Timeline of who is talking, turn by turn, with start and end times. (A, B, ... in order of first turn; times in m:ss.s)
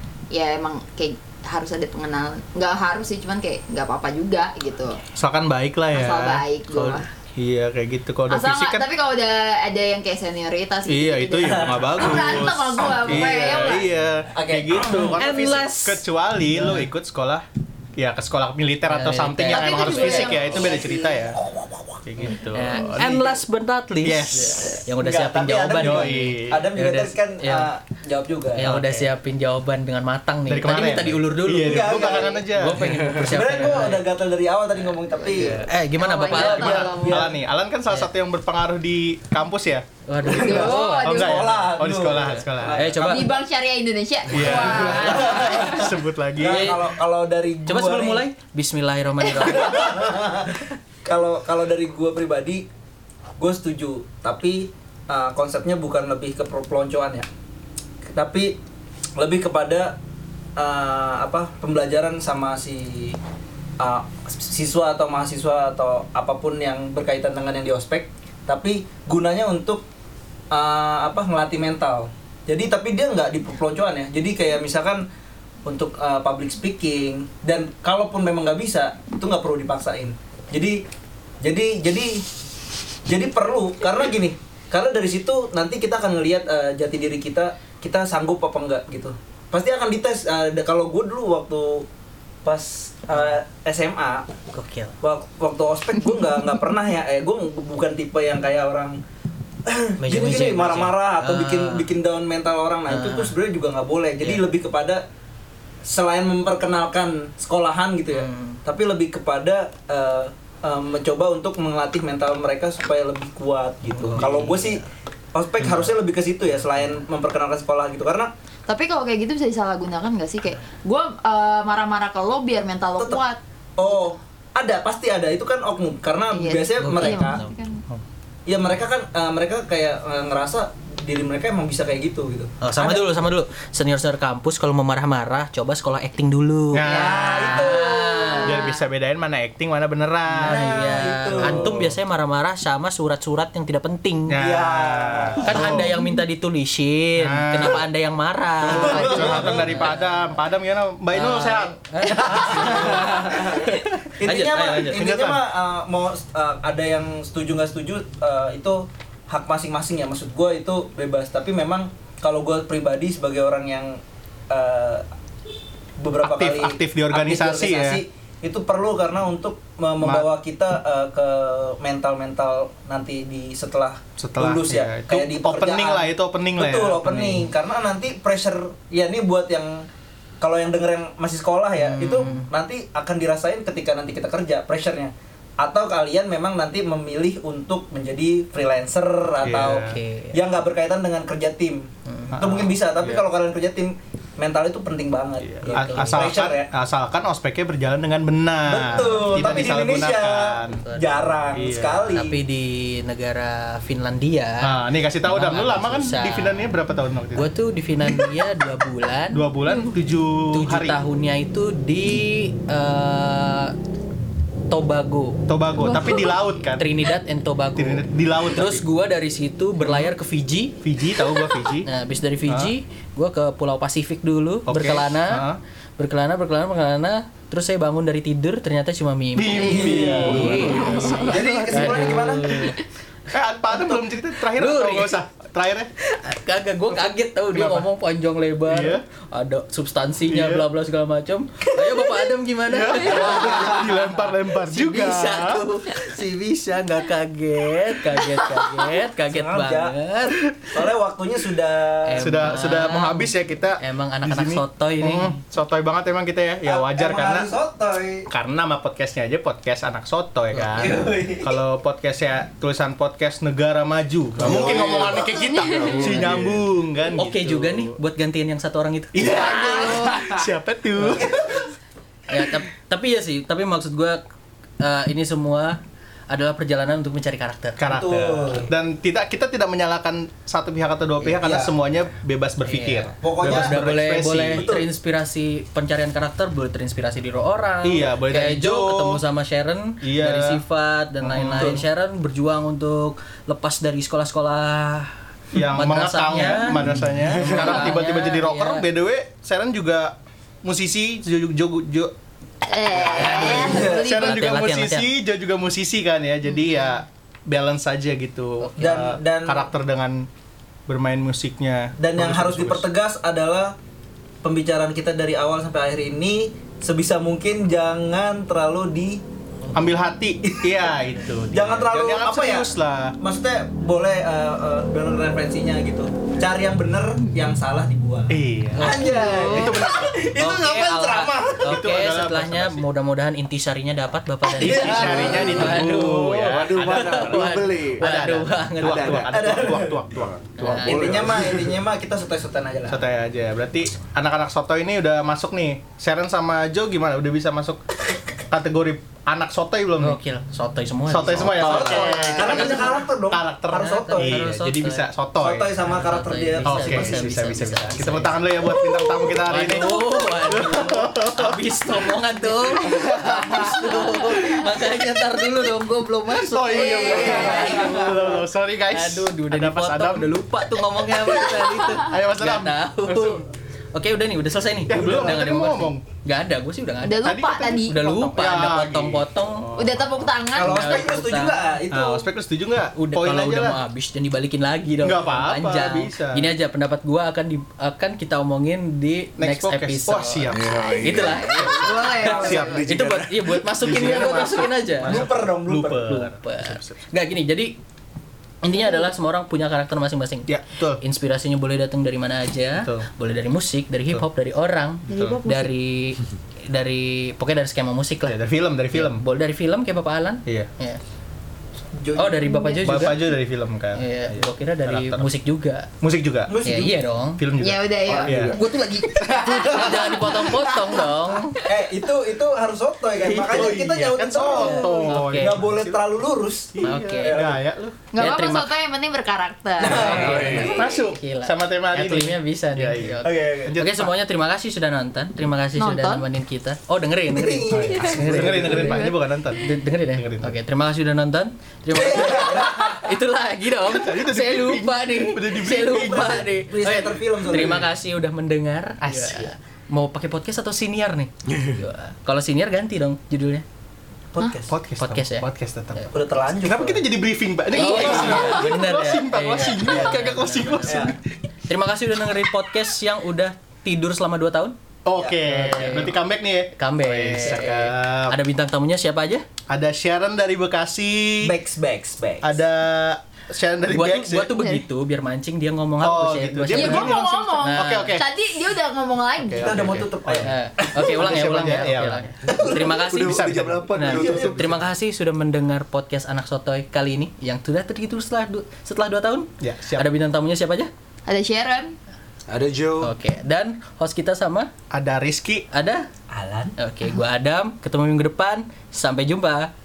0:00.3-0:05.0 A
0:05.2-0:08.8 B
0:05.9-0:07.1 A
0:08.3-0:13.9 A
0:10.9-0:17.4 B
0:11.4-0:12.4 C
0:14.3-0:15.2 C
0:14.9-0:16.8 D
0:18.0-0:21.4 B
0:18.9-0:20.5 D
0:19.5-0:21.0 A
0:20.5-0:22.3 C
0:22.0-0:23.4 B
0:22.5-0:27.7 D
0:24.0-0:24.7 B
0:24.9-0:28.7 C
0:25.7-0:26.7 B
0:28.5-0:34.1 D
0:28.7-0:29.0 B
0:30.5-0:32.8 B
0:31.6-0:32.4 C
0:32.8-0:33.1 E
0:33.1-0:35.6 C
0:35.2-0:37.3 A
0:35.3-0:35.6 B
0:35.5-0:37.1 D
0:36.3-0:37.3 C
0:36.4-0:39.8 B
0:40.1-0:43.3 D
0:40.2-0:43.4 C
0:40.3-0:41.5 A
0:41.0-0:42.9 B
0:43.0-0:45.8 A
0:44.3-0:46.8 B
0:44.4-0:48.2 C
0:44.7-0:45.6 D
0:46.4-0:47.0 D
0:47.6-0:50.6 D
0:49.3-0:52.6 C
0:53.4-0:57.3 C
0:58.1-0:58.6 C
0:59.2-1:00.0 C
1:00.6-1:03.2 C
1:03.8-1:09.8 C
1:10.5-1:15.0 C
1:15.6-1:20.8 C
1:21.4-1:22.2 C
1:23.1-1:31.8 C
1:32.4-1:34.2 C
1:34.5-1:35.0 D
1:35.0-1:39.0 C
1:39.6-1:45.0 C
1:40.0-1:41.9 D
1:42.9-1:43.3 D
1:45.8-1:54.8 C
1:48.1-1:48.6 D
1:53.9-1:54.8 D
1:55.3-1:58.3 C
1:58.7-2:04.1 A
2:03.8-2:07.4 C
2:06.3-2:07.8 A
2:06.8-2:07.6 D
2:08.4-2:13.0 C
2:12.6-2:18.7 D
2:16.7-2:17.6 B
2:16.8-2:18.4 C
2:16.8-2:18.8 A
2:18.4-2:20.8 B
2:20.3-2:24.4 D
2:20.4-2:21.8 C
2:21.3-2:21.9 B
2:24.3-2:26.1 B
2:24.4-2:25.7 C
2:25.4-2:30.3 D
2:27.2-2:27.8 B
2:28.6-2:33.3 B
2:28.6-2:29.8 C
2:31.1-2:35.0 D
2:32.2-2:45.0 C
2:34.7-2:35.4 B
2:46.0-2:59.8 C
2:46.2-2:48.0 B
2:50.0-2:50.3 B
2:54.2-2:57.2 B
2:57.1-2:57.4 D
3:00.4-3:16.7 C
3:01.8-3:02.5 D
3:09.4-3:10.0 B
3:09.6-3:10.4 D
3:12.1-3:12.4 D
3:12.3-3:13.2 B
3:15.4-3:20.8 B
3:15.6-3:16.2 D
3:18.7-3:22.4 C
3:19.0-3:19.8 D
3:20.8-3:21.1 D
3:21.5-3:22.1 B
3:22.1-3:24.7 D
3:24.6-3:27.5 B
3:25.2-3:26.6 D
3:27.3-3:29.4 D
3:29.3-3:31.0 B
3:30.5-3:33.7 D
3:34.7-3:35.4 D
3:35.5-3:36.8 B
3:35.8-3:36.4 A
3:36.7-3:40.8 D
3:37.8-3:38.8 B
3:39.8-3:40.2 B
3:40.8-3:41.9 B
3:41.8-3:45.4 D
3:44.7-3:45.6 B
3:46.0-3:52.8 D
3:49.4-3:51.8 B
3:49.7-3:52.7 C
3:53.3-3:55.9 B
3:53.7-3:54.0 D
3:54.5-3:55.2 D
3:56.0-4:10.4 D
3:57.5-3:57.9 B
3:58.7-3:59.0 B
4:00.3-4:00.6 B
4:02.7-4:05.6 B
4:09.2-4:10.0 C
4:10.7-4:12.3 C
4:12.0-4:15.4 D
4:12.2-4:17.5 B
4:16.6-4:18.2 C
4:18.3-4:28.0 B
4:20.6-4:20.9 D
4:20.7-4:21.5 C
4:24.4-4:26.6 E
4:25.2-4:26.0 A
4:27.2-4:29.5 D
4:29.1-4:31.6 B
4:29.2-4:30.0 C
4:29.6-4:30.1 A
4:31.0-4:31.7 C
4:32.3-4:34.2 D
4:34.8-4:35.8 D
4:36.3-4:37.8 D
4:37.8-4:44.7 B
4:37.8-4:38.7 C
4:41.3-4:41.7 C
4:42.6-4:55.1 D
4:43.2-4:43.8 C
4:44.5-4:44.8 C
4:47.8-4:49.2 B
4:50.0-4:50.6 B
4:51.2-4:51.8 B
4:55.5-5:02.1 B
4:55.7-4:58.8 D
5:02.6-5:04.4 A
5:03.0-5:05.1 D
5:03.2-5:10.3 B
5:03.3-5:04.1 C
5:08.6-5:08.9 D
5:08.8-5:09.6 C
5:10.9-5:12.9 B
5:12.0-5:13.7 C
5:14.4-5:19.2 C
5:19.6-5:20.0 D
5:19.7-5:23.1 B
5:21.5-5:22.7 C
5:23.2-5:31.7 C
5:28.3-5:30.2 B
5:28.8-5:29.5 D
5:28.9-5:29.8 A
5:30.3-5:39.2 D
5:31.6-5:32.8 B
5:34.6-5:35.9 C
5:34.6-5:41.6 B
5:35.6-5:38.0 E
5:38.8-5:40.4 E
5:39.3-5:40.0 C
5:40.6-5:41.1 D
5:40.7-5:43.0 C
5:40.9-5:41.7 E
5:42.9-5:47.8 B
5:48.5-5:50.2 B
5:50.0-5:53.0 D
5:51.1-5:55.7 B
5:51.5-5:54.5 C
5:53.7-5:55.1 D
5:55.4-5:57.3 C
5:55.8-6:19.7 D
5:56.6-6:05.5 B
6:06.3-6:10.4 B
6:06.7-6:08.0 A
6:10.9-6:13.4 B
6:14.9-6:16.0 B
6:17.0-6:18.1 A
6:17.2-6:20.3 B
6:19.8-6:21.1 A
6:20.5-6:22.3 C
6:20.6-6:21.7 D
6:21.9-6:23.8 B
6:22.9-6:30.5 D
6:25.0-6:26.5 B
6:29.4-6:37.0 B
6:30.5-6:31.6 E
6:31.0-6:35.2 D
6:31.2-6:32.8 A
6:32.5-6:33.2 E
6:35.0-6:36.2 C
6:36.0-6:37.7 D
6:38.6-6:48.4 D
6:38.8-6:39.1 A
6:40.5-6:41.0 B
6:42.8-6:43.1 B
6:45.0-6:45.4 B
6:45.0-6:45.7 A
6:48.3-6:49.2 B
6:48.9-6:51.0 D
6:51.9-6:52.4 C
6:52.2-6:53.2 D
6:52.4-6:53.2 A
6:52.8-6:55.3 B
6:53.9-6:55.9 D
6:56.0-6:56.6 B
6:56.5-6:57.0 C
6:56.6-6:57.4 D
6:57.4-6:58.6 B
6:57.6-6:59.8 A
6:58.1-7:01.0 C
6:59.3-6:59.7 B
6:59.4-7:01.6 D
7:01.6-7:07.6 C
7:03.3-7:03.8 D
7:03.3-7:06.0 B
7:04.4-7:05.6 D
7:06.8-7:08.0 B
7:06.8-7:07.4 D
7:08.1-7:11.0 A
7:08.2-7:08.7 D
7:09.8-7:10.7 C
7:09.8-7:10.8 E
7:09.9-7:33.6 D
7:10.7-7:14.1 B
7:13.2-7:13.8 C
7:15.8-7:16.2 A
7:17.3-7:18.8 C
7:17.7-7:20.6 B
7:18.0-7:19.2 A
7:21.9-7:23.1 C
7:23.8-7:26.5 B
7:26.3-7:27.9 C
7:29.0-7:29.5 B
7:31.5-7:31.8 E
7:34.3-7:34.7 C
7:34.7-7:41.2 B
7:35.0-7:36.1 D
7:36.1-7:37.0 C
7:37.7-7:41.1 D
7:40.9-7:41.1 C
7:41.7-7:44.8 D
7:45.0-7:48.4 B
7:45.2-7:45.9 C
7:45.4-7:46.2 D
7:46.8-7:49.4 D
7:49.7-7:51.5 B
7:51.4-7:52.5 C
7:52.4-7:54.7 B
7:53.9-7:58.2 D
7:56.0-7:58.3 B
7:56.7-8:00.0 A
7:59.4-8:04.8 B
7:59.5-8:01.1 C
8:00.4-8:10.9 D
8:02.4-8:03.2 C
8:03.1-8:04.5 E
8:04.0-8:04.7 C
8:09.6-8:10.1 B
8:11.3-8:12.0 A
8:12.5-8:13.1 E
8:13.0-8:14.7 D
8:14.9-8:15.6 B
8:15.7-8:16.0 D
8:16.3-8:16.8 C
8:16.8-8:19.7 D